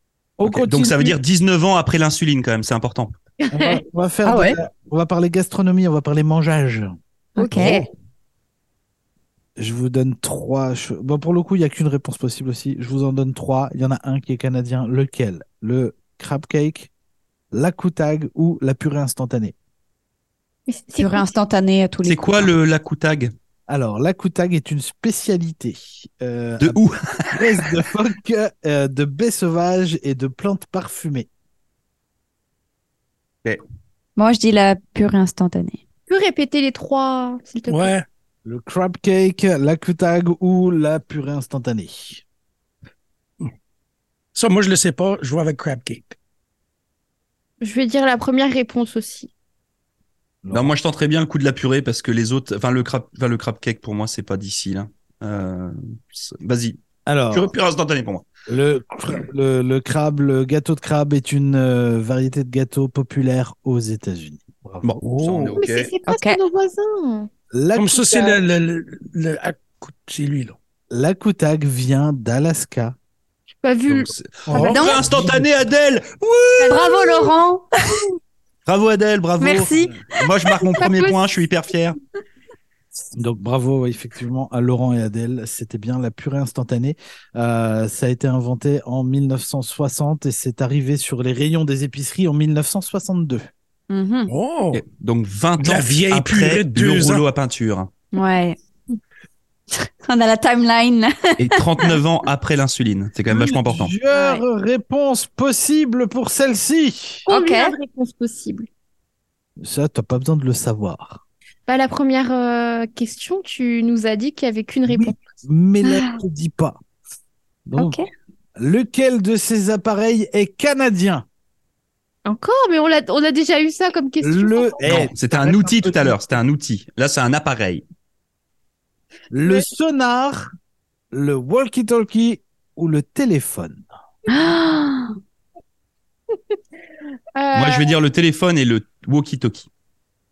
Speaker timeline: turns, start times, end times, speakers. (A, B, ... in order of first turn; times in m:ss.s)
0:00.4-0:01.2 A
0:00.4-0:03.1 B
0:03.4-0:03.8 C
0:03.5-0:06.9 A
0:04.2-0:04.6 D
0:07.4-0:07.9 D
0:07.5-0:07.8 A
0:07.6-0:07.8 B
0:09.6-0:16.9 A
0:17.5-0:19.5 A
0:20.7-0:21.3 C
0:21.0-0:22.5 D
0:22.0-0:23.3 B
0:23.7-0:31.3 A
0:26.6-0:27.7 B
0:34.2-0:35.8 D
0:36.1-0:37.9 C
0:37.7-0:38.0 E
0:38.4-0:42.2 A
0:44.3-0:46.2 E
0:47.6-0:49.3 C
0:50.4-0:50.7 A
0:50.5-0:56.8 B
0:57.0-0:57.5 A
0:57.3-0:58.2 B
0:58.5-1:05.5 A
1:04.8-1:05.9 B
1:05.0-1:05.6 E
1:05.6-1:07.3 C
1:06.1-1:06.4 D
1:07.5-1:08.4 A
1:07.7-1:10.6 E
1:10.9-1:12.9 A
1:13.6-1:14.8 C
1:13.9-1:16.8 B
1:14.5-1:15.4 E
1:14.6-1:15.0 D
1:15.1-1:15.4 A
1:16.6-1:17.3 C
1:16.7-1:18.0 D
1:18.6-1:22.0 B
1:19.4-1:20.0 D
1:20.8-1:21.1 C
1:23.1-1:33.5 A
1:33.9-1:34.3 D
1:34.3-1:34.8 E
1:34.7-1:37.9 B
1:35.6-1:37.2 E
1:38.1-1:38.6 D
1:39.7-1:42.0 D
1:41.4-1:43.9 B
1:43.3-1:47.2 A
1:44.1-1:44.4 D
1:47.2-1:47.8 D
1:47.3-1:48.7 C
1:49.6-1:51.2 A
1:51.7-1:55.2 C
1:54.9-1:56.8 A
1:55.8-1:56.2 D
1:57.6-1:58.0 A
1:57.8-1:58.1 D
1:58.6-2:01.2 A
2:02.2-2:05.0 C
2:04.2-2:06.2 A
2:04.8-2:07.8 B
2:09.3-2:10.5 A
2:11.1-2:13.8 A
2:14.3-2:15.1 D
2:17.3-2:18.0 C
2:17.5-2:19.7 B